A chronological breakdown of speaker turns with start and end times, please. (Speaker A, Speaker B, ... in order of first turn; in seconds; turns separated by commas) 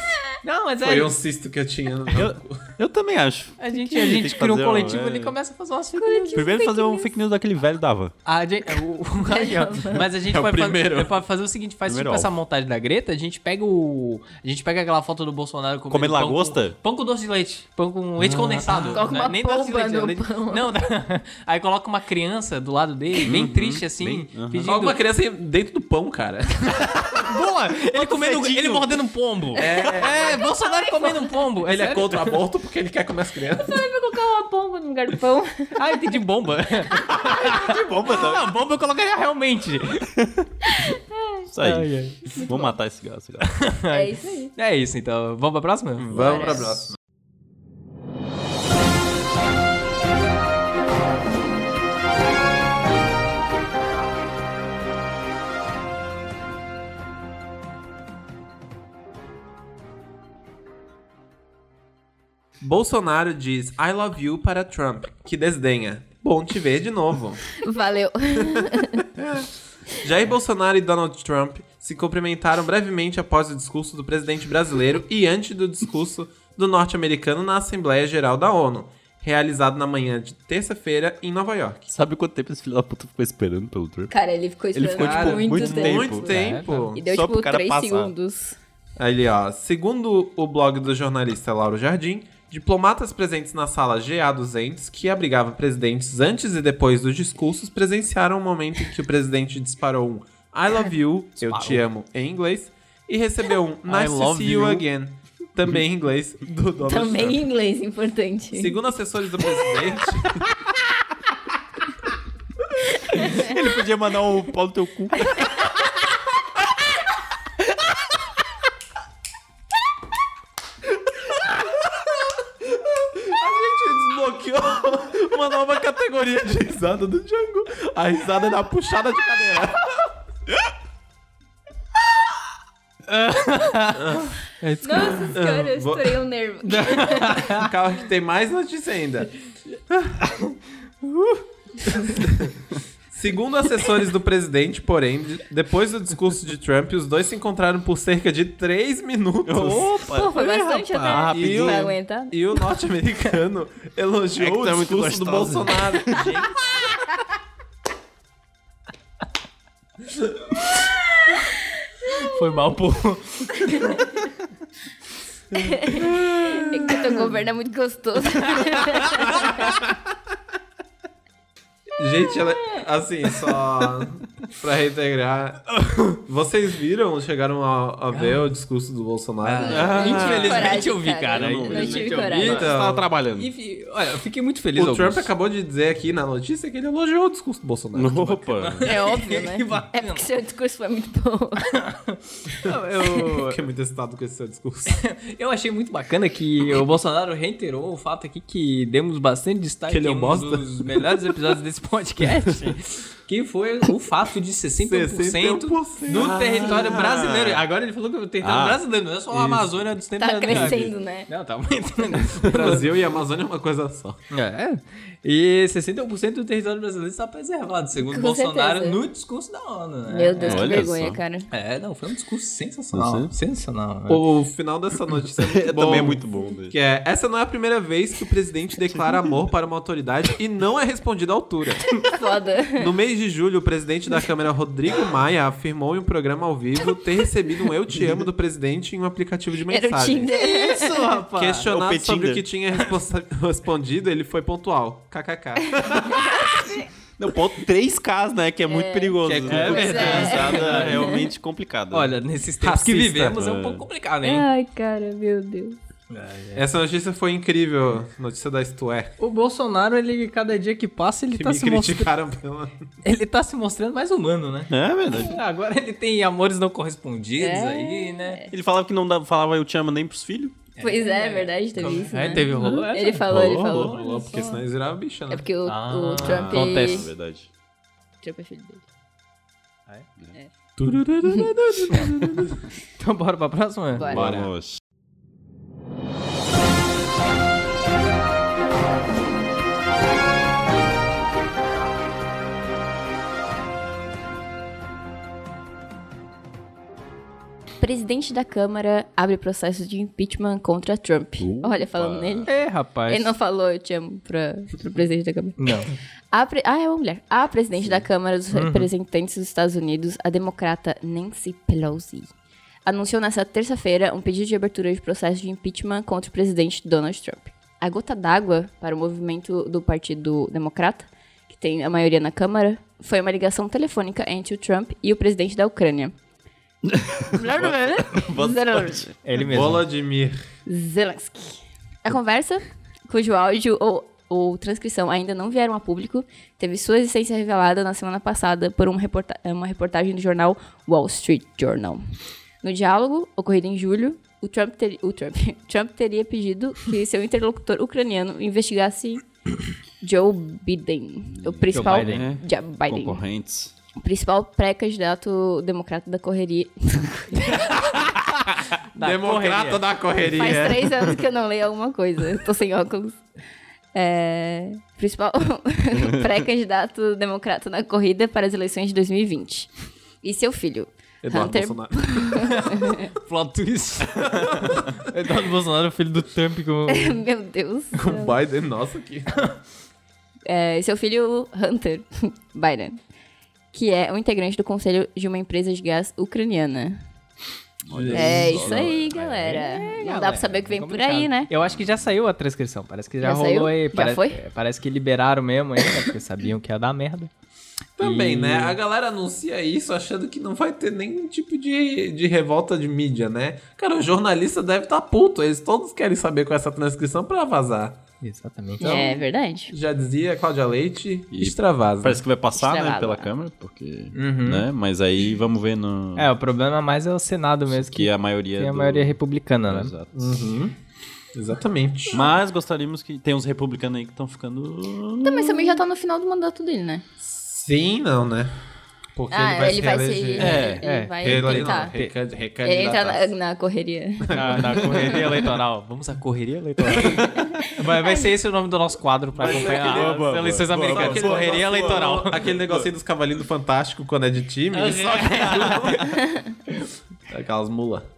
Speaker A: 0.4-1.1, Speaker B: 0.8-2.6, Speaker C: 2.1-5.3, Speaker A: 3.6-6.4, Speaker D: 6.0-7.1, Speaker C: 6.3-8.1, Speaker A: 8.2-25.0, Speaker D: 9.2-10.1, Speaker B: 10.2-11.2, Speaker C: 11.9-12.3, Speaker C: 15.9-16.8, Speaker C: 18.2-19.0, Speaker D: 18.8-20.7, Speaker C: 23.2-24.7, Speaker B: 24.6-27.0, Speaker A: 26.7-32.4, Speaker C: 27.9-28.9, Speaker B: 29.6-30.4, Speaker D: 30.1-31.2, Speaker B: 31.6-33.8, Speaker D: 33.5-35.9, Speaker A: 35.8-40.1, Speaker C: 37.1-38.5, Speaker C: 40.1-40.5, Speaker D: 40.7-41.4, Speaker C: 41.5-43.6, Speaker A: 41.6-42.3, Speaker D: 42.4-42.7, Speaker A: 43.5-46.7, Speaker D: 43.9-44.5, Speaker C: 46.0-46.9, Speaker B: 46.1-46.9, Speaker D: 46.1-46.7, Speaker B: 62.6-67.6, Speaker D: 67.6-69.0, Speaker B: 68.4-69.4, Speaker B: 69.9-81.9, Speaker C: 81.9-84.1, Speaker D: 84.1-86.2, Speaker C: 84.7-86.3, Speaker B: 84.9-87.0, Speaker A: 86.2-86.9, Speaker D: 86.9-88.6, Speaker C: 87.0-88.1, Speaker B: 89.0-107.4, Speaker C: 101.4-101.8, Speaker A: 103.9-104.8, Speaker D: 106.8-108.8, Speaker B: 108.5-110.5, Speaker D: 113.0-113.7, Speaker C: 113.1-115.7, Speaker D: 115.2-115.7, Speaker B: 122.6-130.1, Speaker A: 133.1-135.3, Speaker B: 134.0-134.3, Speaker D: 134.8-137.5, Speaker B: 135.3-136.2, Speaker A: 136.6-137.7, Speaker B: 137.5-139.3, Speaker B: 139.9-140.2, Speaker A: 140.3-141.4, Speaker B: 141.9-142.5, Speaker A: 142.0-142.3, Speaker B: 143.1-149.9, Speaker C: 149.4-151.9, Speaker D: 150.1-152.6, Speaker B: 151.0-156.7, Speaker C: 154.4-156.4, Speaker A: 162.2-164.2, Speaker B: 165.5-166.7, Speaker D: 165.8-169.8, Speaker A: 168.6-169.2, Speaker B: 169.3-169.8, Speaker B: 172.0-180.4, Speaker A: 175.7-176.2, Speaker A: 178.1-178.4, Speaker A: 179.4-182.8, Speaker D: 179.6-182.7, Speaker C: 179.7-183.5, Speaker B: 182.3-183.1, Speaker A: 183.3-185.3, Speaker B: 184.8-188.6, Speaker C: 187.9-188.9, Speaker A: 188.6-190.2, Speaker D: 188.8-191.7, Speaker A: 191.7-193.6, Speaker B: 193.3-195.0, Speaker A: 194.9-212.8, Speaker B: 199.9-201.2, Speaker B: 204.8-206.8, Speaker C: 206.1-207.6, Speaker C: 208.4-208.8, Speaker D: 210.2-211.3, Speaker C: 210.5-210.8, Speaker B: 212.4-214.2, Speaker A: 214.3-220.9, Speaker D: 218.0-219.0, Speaker D: 220.1-221.5, Speaker C: 220.4-221.2, Speaker A: 221.5-224.2, Speaker C: 222.9-223.3, Speaker B: 224.1-231.9, Speaker C: 225.4-226.8, Speaker D: 232.0-232.9, Speaker B: 232.8-240.3, Speaker D: 239.7-241.1, Speaker A: 240.3-241.7, Speaker B: 241.3-246.7, Speaker C: 241.6-242.4, Speaker D: 246.1-246.8, Speaker C: 247.2-252.1, Speaker D: 248.7-251.3, Speaker A: 249.3-251.2, Speaker B: 249.4-250.3, Speaker A: 251.9-254.4, Speaker B: 252.6-253.4, Speaker C: 253.3-253.8, Speaker D: 254.2-255.8, Speaker A: 256.1-256.6, Speaker B: 256.6-259.1, Speaker A: 259.2-262.1, Speaker B: 261.3-262.8, Speaker A: 263.0-268.4, Speaker C: 264.7-265.4, Speaker D: 267.4-268.5, Speaker C: 268.5-270.6, Speaker A: 270.8-273.3, Speaker D: 270.8-274.6, Speaker C: 272.6-273.9, Speaker B: 273.7-275.4, Speaker D: 275.3-277.1, Speaker A: 275.6-277.1, Speaker C: 276.2-277.5, Speaker D: 278.2-278.8, Speaker B: 280.8-282.6, Speaker A: 283.0-284.1, Speaker D: 283.9-284.2, Speaker C: 284.1-284.8, Speaker B: 284.1-284.5, Speaker D: 297.8-302.5, Speaker C: 301.4-302.5, Speaker A: 302.5-303.3, Speaker D: 303.1-305.7, Speaker A: 305.6-305.9, Speaker D: 306.3-312.3, Speaker A: 308.5-308.9, Speaker D: 312.8-326.1, Speaker C: 326.8-329.1, Speaker D: 327.3-329.2, Speaker A: 329.2-329.8, Speaker B: 329.4-330.4, Speaker D: 330.7-342.1, Speaker D: 342.6-349.2, Speaker D: 350.0-353.2, Speaker C: 351.4-353.7, Speaker A: 351.7-352.3, Speaker D: 354.0-357.7, Speaker A: 357.4-358.1, Speaker A: 358.9-359.8, Speaker B: 359.0-361.1, Speaker D: 360.2-363.2, Speaker D: 363.9-369.7, Speaker D: 370.2-373.1, Speaker B: 371.2-372.6, Speaker A: 372.4-377.2, Speaker B: 374.4-374.8, Speaker D: 376.9-378.4, Speaker B: 377.9-379.5, Speaker D: 380.4-383.0, Speaker D: 383.7-387.0, Speaker C: 387.8-389.7, Speaker B: 387.9-388.9, Speaker D: 388.1-391.5, Speaker A: 389.5-397.3, Speaker C: 391.6-392.1, Speaker D: 393.2-394.4, Speaker B: 398.0-408.0, Speaker A: 398.0-398.8, Speaker A: 408.2-409.0, Speaker D: 408.8-409.7, Speaker B: 408.8-412.2, Speaker C: 411.3-416.3, Speaker D: 412.6-413.3, Speaker A: 414.1-414.7, Speaker A: 416.2-419.9, Speaker C: 417.7-420.4, Speaker B: 420.2-420.7, Speaker B: 421.3-422.3, Speaker C: 422.1-425.8, Speaker D: 425.2-427.0, Speaker B: 427.2-428.6, Speaker B: 429.1-433.3, Speaker D: 429.3-431.9, Speaker C: 430.4-430.8, Speaker A: 430.4-432.1, Speaker D: 432.6-434.9, Speaker B: 434.2-435.4, Speaker A: 434.3-442.5, Speaker B: 437.0-437.2, Speaker D: 437.5-438.3, Speaker C: 439.4-442.9, Speaker B: 439.4-446.2, Speaker A: 444.7-446.2, Speaker C: 445.4-445.9, Speaker D: 446.1-446.5, Speaker B: 447.3-448.1